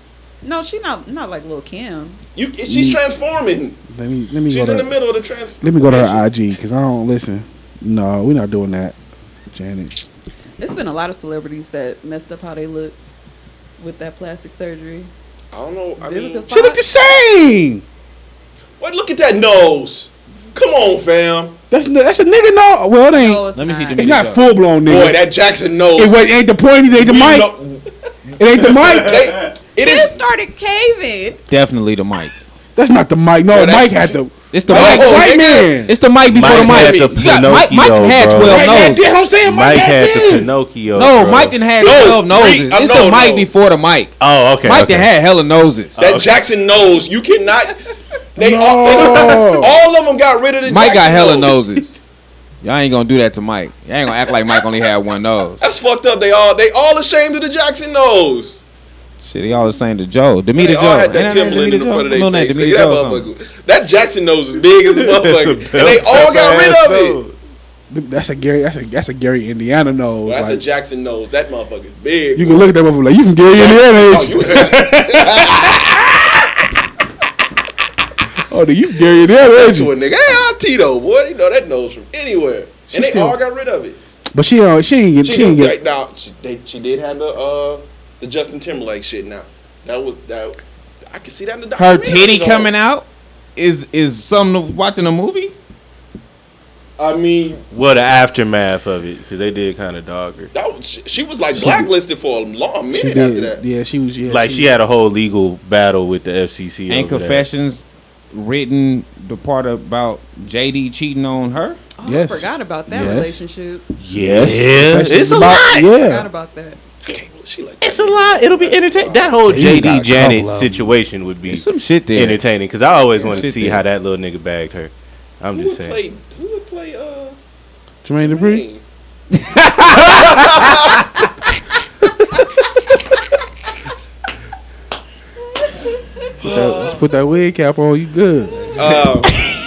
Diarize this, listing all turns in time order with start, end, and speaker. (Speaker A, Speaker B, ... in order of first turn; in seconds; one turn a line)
Speaker A: 0.4-2.2
Speaker B: 2.4-3.8
Speaker C: 2.6-3.0
Speaker C: 3.9-4.9
Speaker B: 4.5-6.3
Speaker C: 5.6-8.9
Speaker C: 9.5-10.0
Speaker A: 10.6-12.9
Speaker A: 13.8-15.1
Speaker B: 15.5-16.5
Speaker A: 16.0-16.8
Speaker C: 16.5-17.8
Speaker B: 18.8-21.6
Speaker C: 21.7-23.4
Speaker A: 23.1-24.0
Speaker D: 23.6-24.5
Speaker C: 24.0-25.2
Speaker B: 24.8-26.2
Speaker C: 25.9-27.5
Speaker B: 26.9-30.1
Speaker C: 28.4-29.3
Speaker A: 29.8-31.4
Speaker D: 31.5-32.4
Speaker C: 32.8-36.0
Speaker B: 33.5-35.8
Speaker D: 34.5-39.0
Speaker E: 36.3-38.6
Speaker B: 36.3-37.2
Speaker C: 38.4-40.5
Speaker A: 38.5-39.0
Speaker E: 39.4-41.6
Speaker A: 40.1-40.3
Speaker D: 40.9-46.0
Speaker B: 41.8-43.5
Speaker E: 44.2-45.1
Speaker E: 45.9-46.3
Speaker B: 46.0-51.6
Speaker C: 48.4-49.7
Speaker E: 48.9-49.5
Speaker D: 50.6-52.0
Speaker D: 52.6-55.6
Speaker B: 55.6-58.6
Speaker D: 59.2-63.3
Speaker B: 60.6-67.2
Speaker E: 64.8-67.4
Speaker C: 67.9-70.6
Speaker B: 70.2-72.7
Speaker C: 72.3-76.4
Speaker B: 73.5-76.3
Speaker C: 78.5-79.9
Speaker B: 79.4-84.0
Speaker C: 82.9-83.4
Speaker C: 84.3-85.8
Speaker B: 85.2-90.6
Speaker B: 91.1-92.7
Speaker D: 91.8-95.5
Speaker B: 97.0-97.6
Speaker E: 97.7-100.5
Speaker B: 100.5-103.6
Speaker C: 101.5-101.9
Speaker C: 102.9-104.7
Speaker E: 104.2-107.4
Speaker D: 106.9-111.8
Speaker A: 112.0-113.8
Speaker C: 112.0-113.4
Speaker E: 114.0-115.9
Speaker C: 114.1-116.3
Speaker A: 115.3-116.8
Speaker B: 117.0-119.3
Speaker E: 117.8-126.0
Speaker C: 119.4-120.9
Speaker D: 121.5-122.4
Speaker C: 123.2-123.4
Speaker D: 123.2-123.8
Speaker B: 125.5-127.4
Speaker C: 128.0-128.7
Speaker B: 128.2-128.8
Speaker D: 129.3-130.8
Speaker B: 129.9-131.0
Speaker C: 136.4-139.5
Speaker B: 136.4-137.0
Speaker B: 138.7-139.3